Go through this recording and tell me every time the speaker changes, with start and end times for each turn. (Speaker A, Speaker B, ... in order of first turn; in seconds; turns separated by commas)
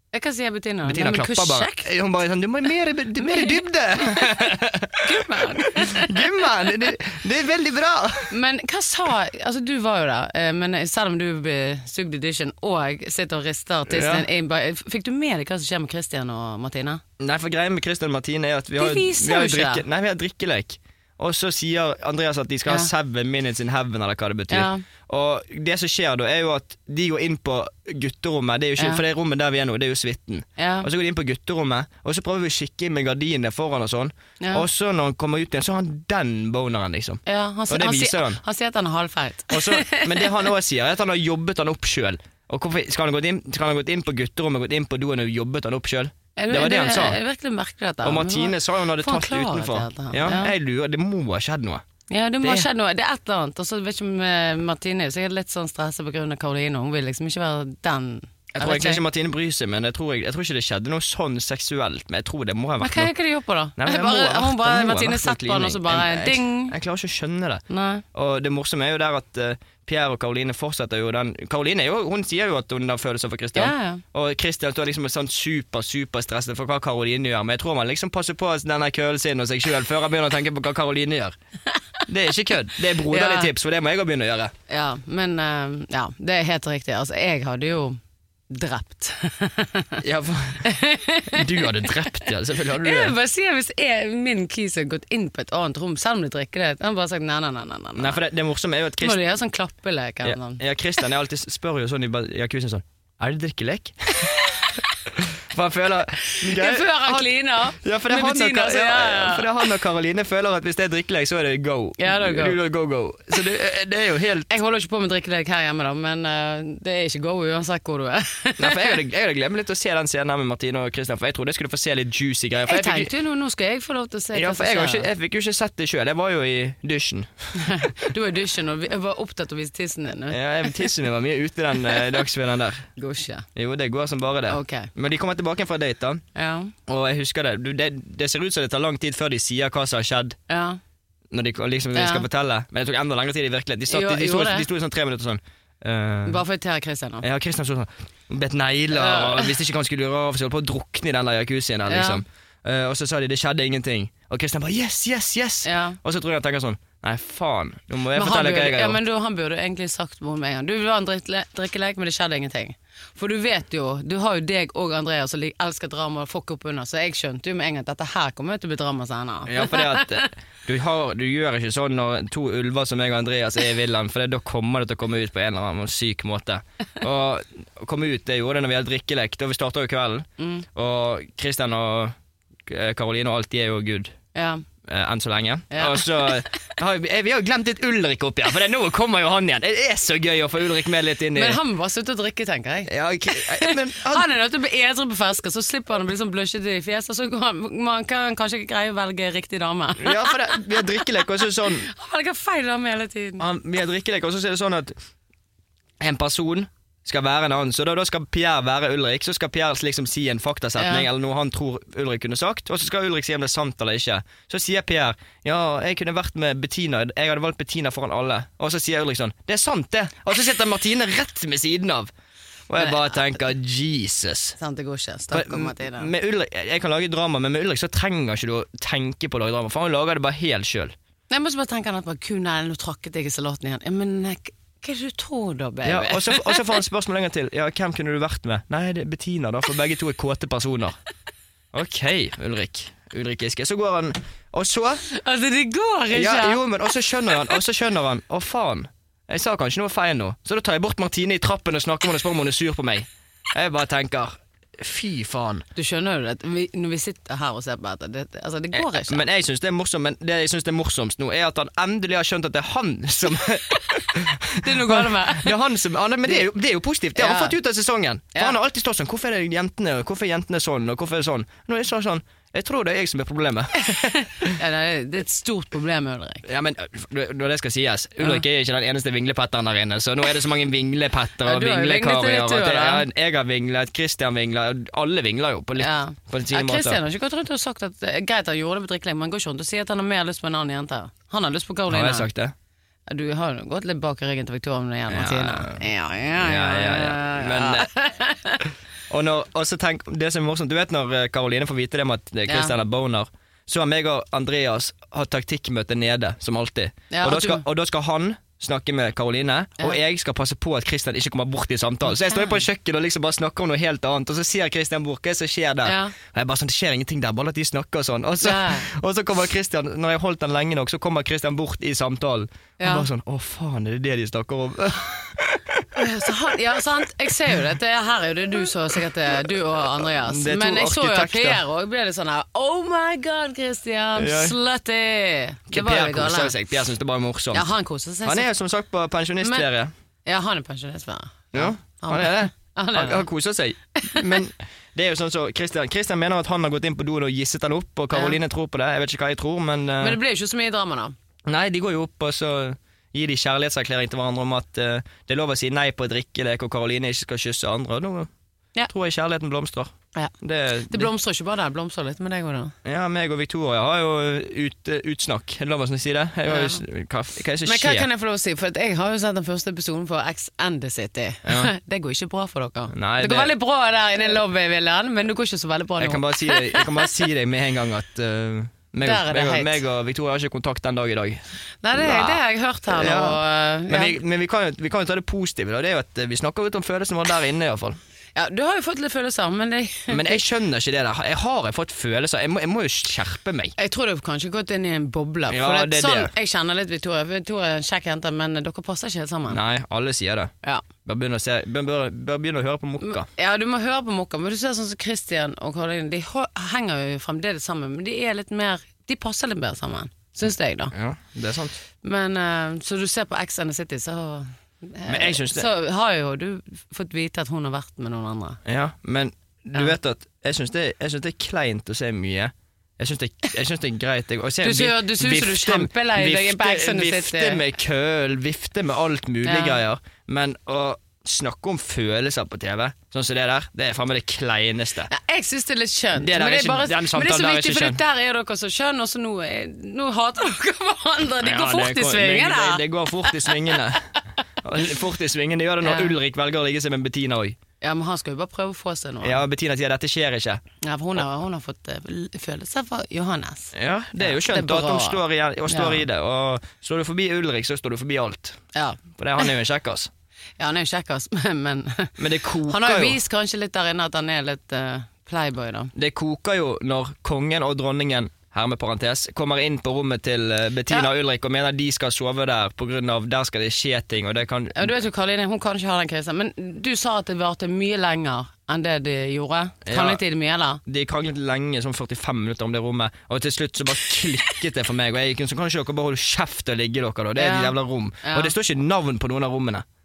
Speaker A: 0.1-1.9, Speaker B: 0.9-8.3, Speaker A: 3.3-3.5, Speaker A: 5.0-6.2, Speaker A: 8.3-17.0, Speaker B: 13.9-14.3, Speaker B: 17.2-38.4, Speaker A: 18.8-19.8, Speaker A: 22.7-22.9, Speaker A: 24.5-24.8, Speaker A: 28.8-29.0, Speaker A: 30.6-30.9, Speaker A: 34.4-34.6, Speaker A: 37.3-40.4, Speaker B: 39.5-47.2, Speaker A: 46.4-50.5, Speaker B: 48.0-51.9, Speaker A: 52.1-59.0, Speaker B: 52.4-52.7, Speaker B: 58.5-63.1, Speaker A: 62.8-66.8, Speaker B: 63.8-81.4, Speaker A: 67.7-68.0, Speaker A: 73.5-74.0, Speaker B: 82.1-84.5, Speaker A: 83.0-83.5, Speaker A: 84.7-90.0, Speaker B: 90.0-90.7, Speaker A: 90.6-91.9, Speaker B: 91.3-93.1, Speaker A: 92.7-98.2, Speaker B: 98.0-99.2, Speaker A: 99.0-100.6, Speaker B: 100.2-114.5, Speaker A: 106.3-109.6, Speaker A: 112.0-112.6, Speaker A: 114.5-119.0, Speaker B: 118.6-123.1, Speaker A: 122.7-125.1, Speaker B: 124.3-127.9, Speaker A: 127.6-130.4, Speaker B: 130.3-132.9, Speaker A: 133.0-133.5, Speaker B: 133.6-136.2, Speaker A: 134.5-134.9, Speaker A: 136.3-136.7, Speaker B: 136.9-140.4, Speaker A: 140.5-140.8, Speaker B: 141.3-146.4, Speaker A: 141.9-142.2, Speaker A: 143.9-144.7, Speaker A: 146.3-147.2, Speaker B: 147.2-159.0, Speaker A: 148.9-149.5, Speaker A: 151.9-152.2, Speaker A: 155.7-156.0, Speaker A: 158.1-170.2, Speaker B: 169.4-182.2, Speaker A: 180.4-180.7, Speaker B: 182.7-184.2, Speaker A: 184.3-184.6, Speaker B: 184.8-191.6, Speaker A: 185.7-186.3, Speaker A: 191.3-201.0, Speaker B: 192.9-194.3, Speaker B: 200.0-201.9, Speaker A: 201.7-203.4, Speaker B: 203.4-204.9, Speaker B: 206.0-222.1, Speaker A: 210.8-211.1, Speaker B: 222.7-224.6, Speaker A: 222.8-223.1, Speaker A: 224.6-226.1, Speaker B: 225.3-230.9, Speaker A: 231.3-236.6, Speaker B: 235.8-241.0, Speaker B: 241.7-245.1, Speaker A: 245.1-246.6, Speaker B: 246.1-255.7, Speaker A: 255.8-259.2, Speaker B: 258.8-274.5, Speaker A: 264.6-265.6, Speaker A: 267.2-267.6, Speaker A: 273.8-276.4, Speaker B: 276.4-287.0, Speaker A: 281.4-283.1, Speaker A: 285.8-292.3, Speaker B: 291.9-292.5, Speaker A: 293.1-298.6, Speaker B: 295.1-297.9, Speaker B: 299.1-326.1, Speaker A: 302.5-302.7, Speaker A: 307.1-307.6, Speaker A: 312.1-312.6, Speaker A: 315.9-316.1, Speaker A: 318.4-318.9, Speaker A: 322.8-323.1, Speaker A: 325.9-336.6, Speaker B: 330.0-331.6, Speaker B: 334.2-334.6, Speaker B: 335.7-337.7, Speaker A: 337.5-338.5, Speaker B: 338.2-339.9, Speaker A: 339.4-339.7, Speaker A: 340.3-343.3, Speaker B: 341.5-350.2, Speaker A: 344.0-344.4, Speaker A: 348.1-348.4, Speaker A: 350.0-351.1, Speaker B: 351.5-358.3, Speaker B: 358.9-361.1, Speaker A: 360.9-362.7, Speaker B: 362.8-368.1, Speaker A: 366.5-366.8, Speaker A: 367.6-377.1, Speaker B: 371.4-371.7, Speaker B: 372.9-373.6, Speaker B: 376.0-381.4, Speaker A: 379.0-379.8, Speaker A: 381.8-384.2, Speaker B: 381.9-388.0, Speaker A: 388.4-390.4, Speaker B: 390.1-393.8, Speaker A: 393.8-399.6, Speaker B: 395.5-396.3, Speaker B: 399.5-400.5, Speaker B: 401.1-403.3, Speaker A: 403.0-410.9, Speaker B: 410.9-411.8, Speaker A: 412.0-418.6, Speaker B: 415.1-415.7, Speaker B: 418.6-435.1, Speaker A: 424.6-427.7, Speaker A: 429.4-429.8, Speaker A: 435.1-443.8, Speaker B: 436.2-438.0, Speaker B: 441.4-444.1, Speaker B: 444.6-447.6, Speaker A: 445.8-446.1, Speaker A: 447.8-449.4, Speaker B: 449.2-450.6, Speaker A: 450.8-456.0, Speaker B: 453.7-460.1, Speaker A: 458.7-459.0, Speaker A: 460.6-465.9, Speaker B: 462.2-463.2, Speaker B: 465.9-475.0, Speaker A: 474.8-480.8, Speaker B: 479.9-480.2, Speaker B: 480.8-489.9, Speaker A: 487.4-488.5